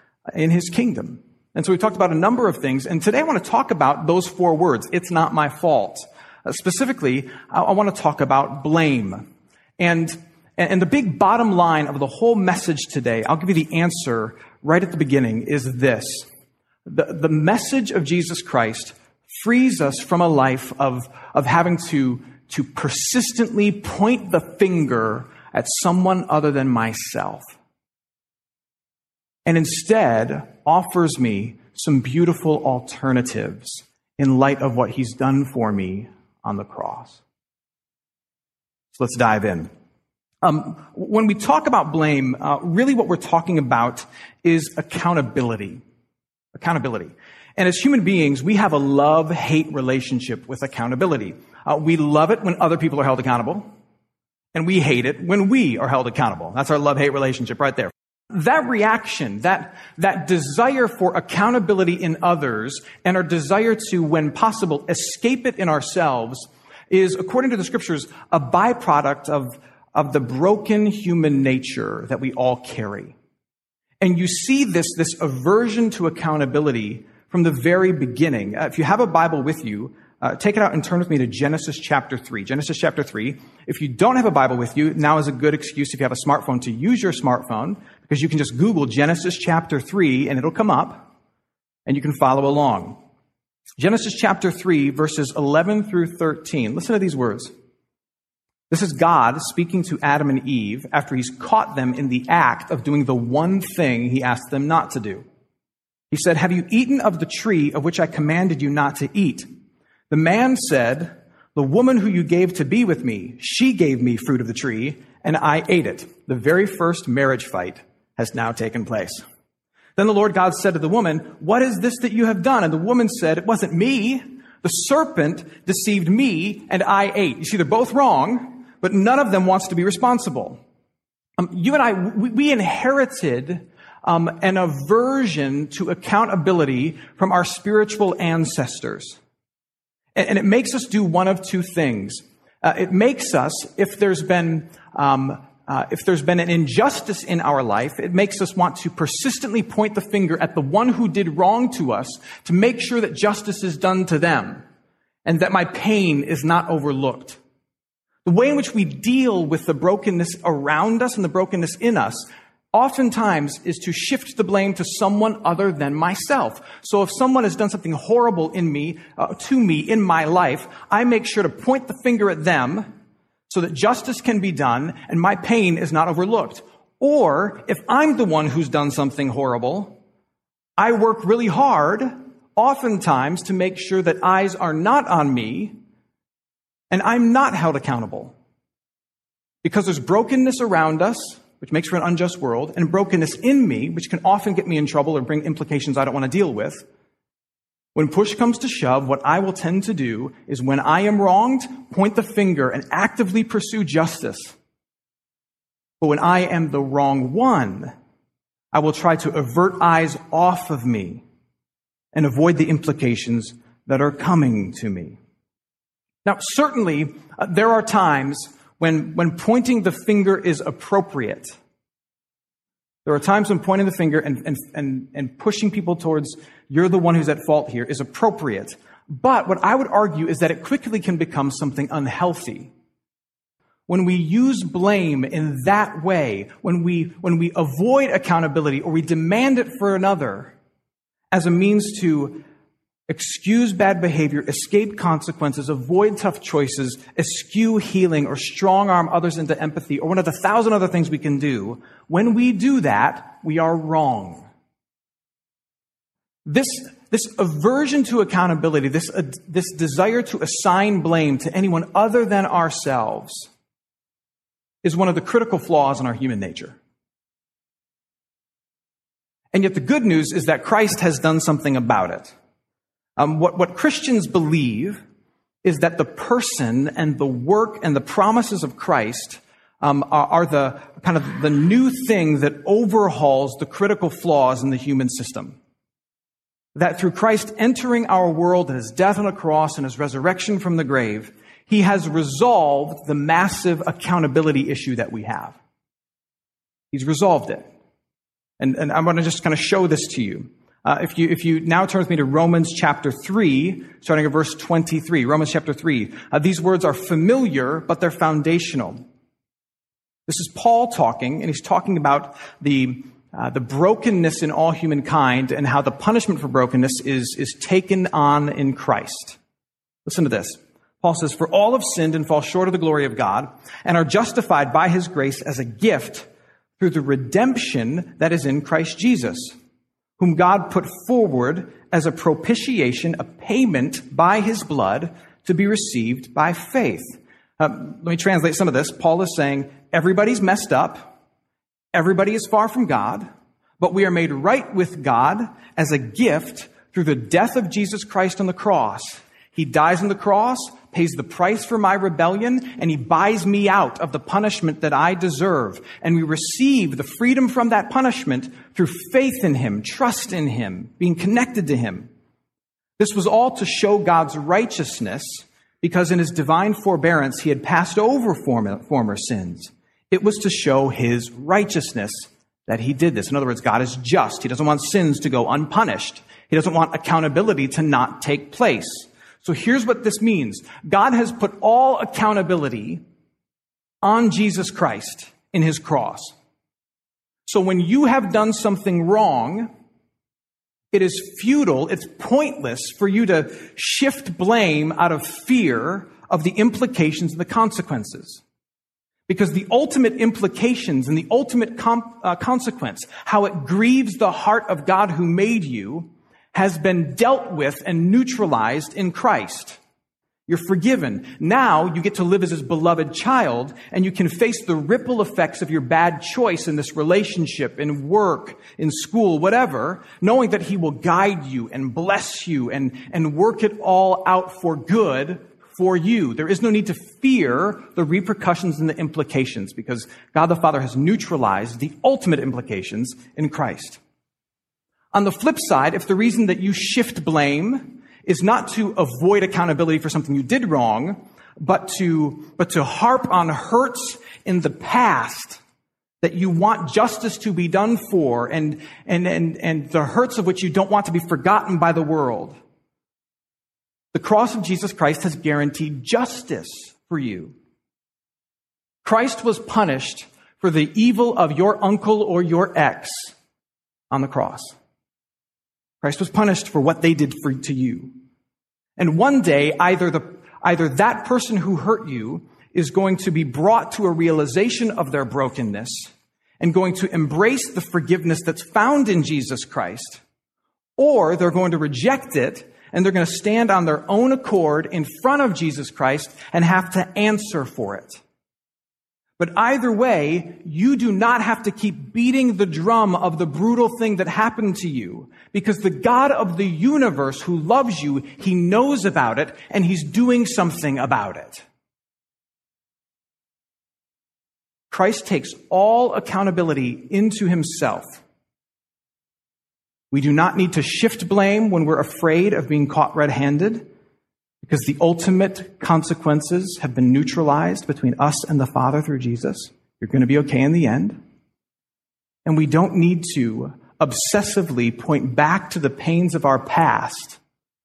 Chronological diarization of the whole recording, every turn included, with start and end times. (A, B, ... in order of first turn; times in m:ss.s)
0:00.3-0:09.3 A
0:09.8-0:16.3 A
0:16.8-0:27.5 A
0:29.4-0:37.2 A
0:38.9-0:39.7 A
0:40.4-0:45.8 A
0:46.5-0:53.7 A
0:54.5-1:13.1 A
1:14.0-1:31.1 A
1:31.8-1:33.0 A
1:33.8-1:37.5 A
1:38.7-1:45.2 A
1:46.1-1:49.4 A
1:50.1-1:59.2 A
2:00.0-2:10.6 A
2:11.4-2:19.2 A
2:20.1-2:34.6 A
2:35.2-2:37.4 A
2:38.2-2:52.9 A
2:53.5-3:00.0 A
3:00.8-3:05.8 A
3:06.9-3:08.3 A
3:09.6-3:16.8 A
3:17.9-3:24.5 A
3:26.0-3:27.9 A
3:28.7-3:31.2 A
3:32.1-3:35.2 A
3:36.2-3:41.6 A
3:43.0-3:52.7 A
3:53.9-4:00.5 A
4:01.3-4:02.4 A
4:03.1-4:14.5 A
4:16.4-4:23.5 A
4:24.8-4:26.8 A
4:29.5-4:32.3 A
4:33.2-4:35.0 A
4:35.6-4:45.6 A
4:46.7-4:55.6 A
4:56.9-4:57.7 A
4:58.6-5:09.0 A
5:10.3-5:19.4 A
5:20.0-5:29.5 A
5:30.2-5:41.1 A
5:41.9-5:43.3 A
5:43.8-6:02.1 A
6:03.0-6:23.0 A
6:24.0-6:26.3 A
6:27.4-6:29.7 A
6:30.9-6:38.4 A
6:39.3-6:49.8 A
6:50.5-7:14.0 A
7:15.1-7:25.6 A
7:26.2-7:32.6 A
7:34.1-7:37.5 A
7:39.0-7:43.3 A
7:44.1-7:44.7 A
7:46.0-7:48.1 A
7:49.0-8:00.2 A
8:01.0-8:08.2 A
8:09.4-8:21.6 A
8:24.9-8:28.2 A
8:30.1-8:33.9 A
8:34.6-8:41.2 A
8:42.4-8:47.4 A